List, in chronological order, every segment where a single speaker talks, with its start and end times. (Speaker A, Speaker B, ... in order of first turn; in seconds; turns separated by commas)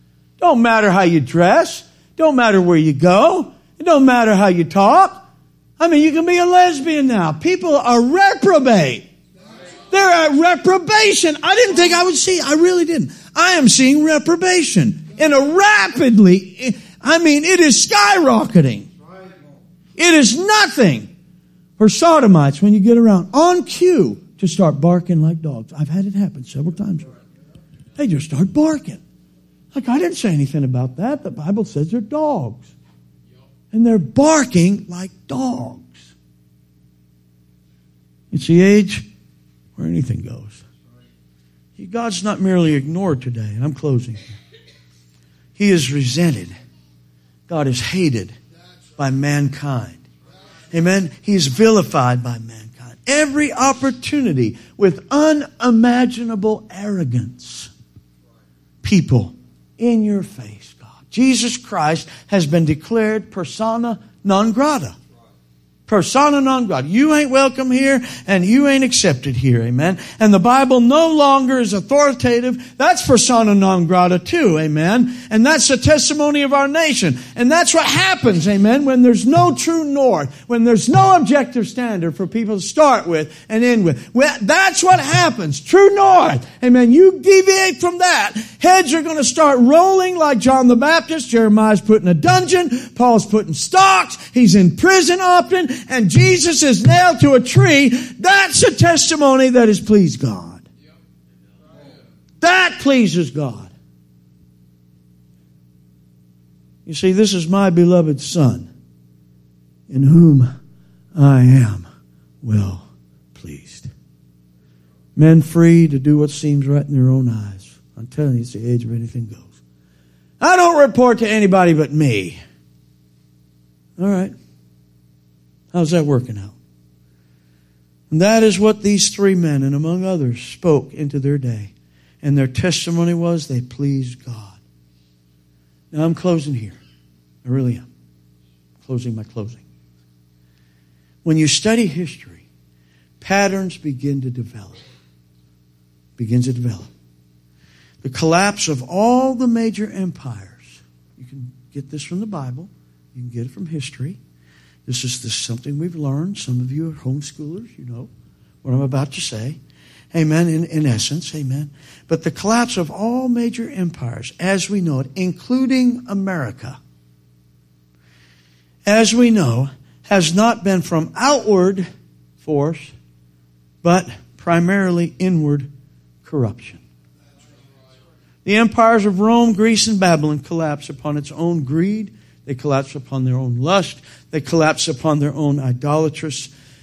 Speaker A: 0.4-5.3, Speaker A: 5.8-9.1, Speaker A: 9.9-18.9, Speaker A: 20.0-21.1, Speaker A: 21.8-27.1, Speaker A: 28.0-29.0, Speaker A: 29.7-32.7, Speaker A: 33.7-36.1, Speaker A: 38.3-39.0, Speaker A: 39.8-40.6, Speaker A: 41.8-44.3, Speaker A: 45.6-46.5, Speaker A: 47.5-48.4, Speaker A: 49.0-50.0, Speaker A: 50.7-57.7, Speaker A: 58.8-65.0, Speaker A: 65.9-100.7, Speaker A: 102.4-103.7, Speaker A: 106.9-108.7, Speaker A: 109.9-110.5, Speaker A: 111.2-111.9, Speaker A: 112.4-113.9, Speaker A: 115.2-119.5, Speaker A: 120.4-122.4, Speaker A: 124.0-124.3, Speaker A: 125.7-126.5, Speaker A: 128.1-134.6, Speaker A: 135.9-136.8, Speaker A: 137.4-137.9, Speaker A: 138.8-139.6, Speaker A: 141.2-142.4, Speaker A: 143.2-144.8, Speaker A: 146.2-146.9, Speaker A: 148.0-154.2, Speaker A: 154.9-158.1, Speaker A: 158.6-159.6, Speaker A: 160.1-166.8, Speaker A: 168.9-171.9, Speaker A: 172.4-172.9, Speaker A: 173.8-175.7, Speaker A: 176.2-176.8, Speaker A: 178.4-186.5